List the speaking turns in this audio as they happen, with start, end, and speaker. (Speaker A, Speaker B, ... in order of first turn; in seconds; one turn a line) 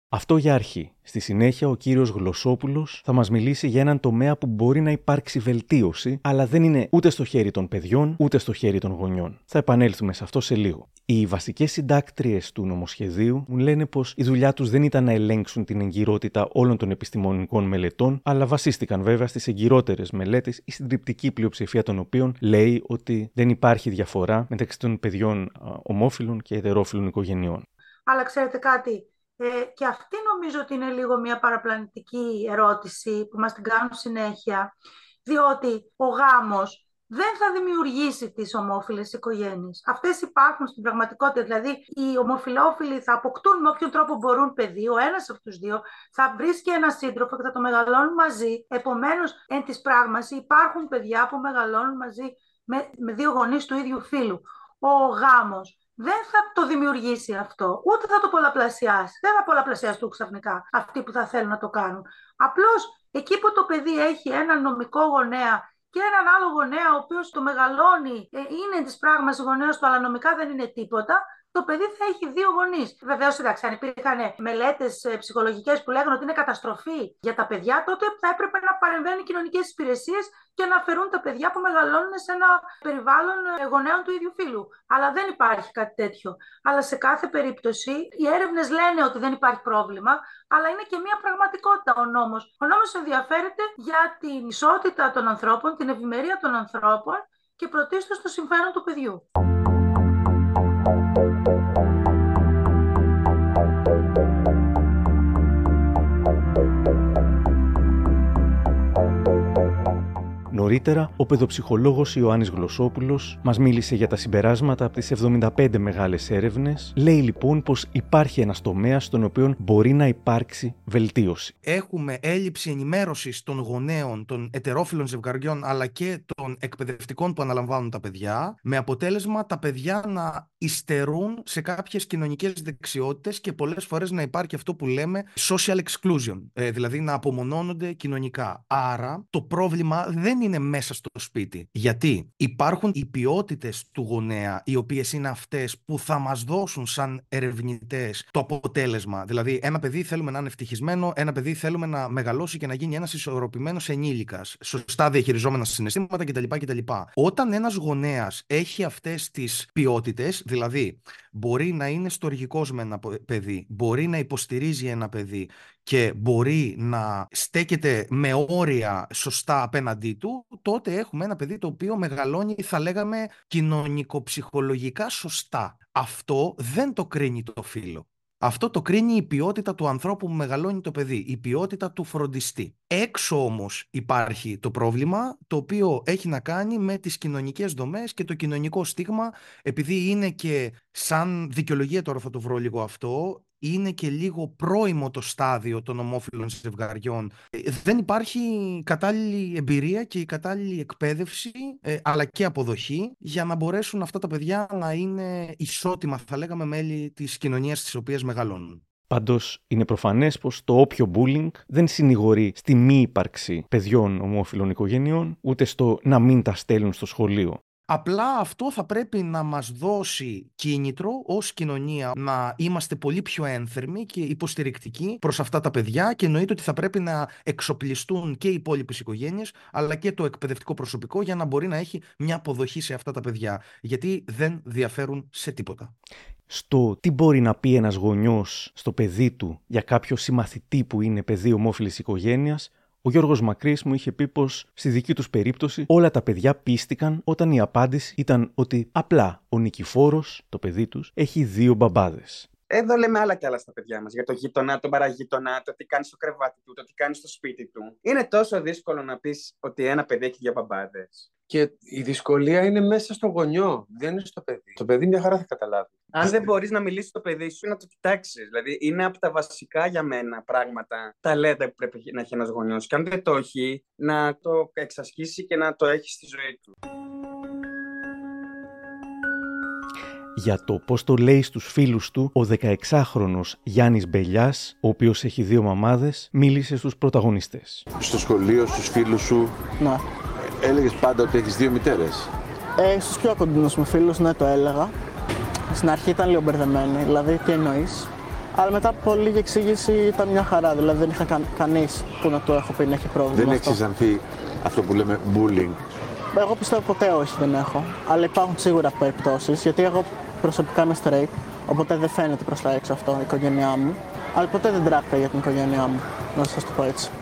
Speaker A: 0.1-27.7
Speaker B: 28.1-34.7
Speaker B: 35.2-99.2
Speaker A: 110.5-121.5
Speaker C: 121.7-208.8
Speaker A: 209.1-217.6
Speaker C: 217.9-235.9
Speaker A: 236.5-252.5
Speaker D: 252.7-261.3
Speaker E: 261.5-266.1
Speaker D: 266.1-276.7
Speaker A: 280.4-287.9
Speaker F: 288.0-289.5
Speaker F: 290.6-292.3
Speaker G: 292.8-294.9
Speaker G: 295.7-303.8
Speaker F: 303.3-305.8
Speaker G: 306.3-317.1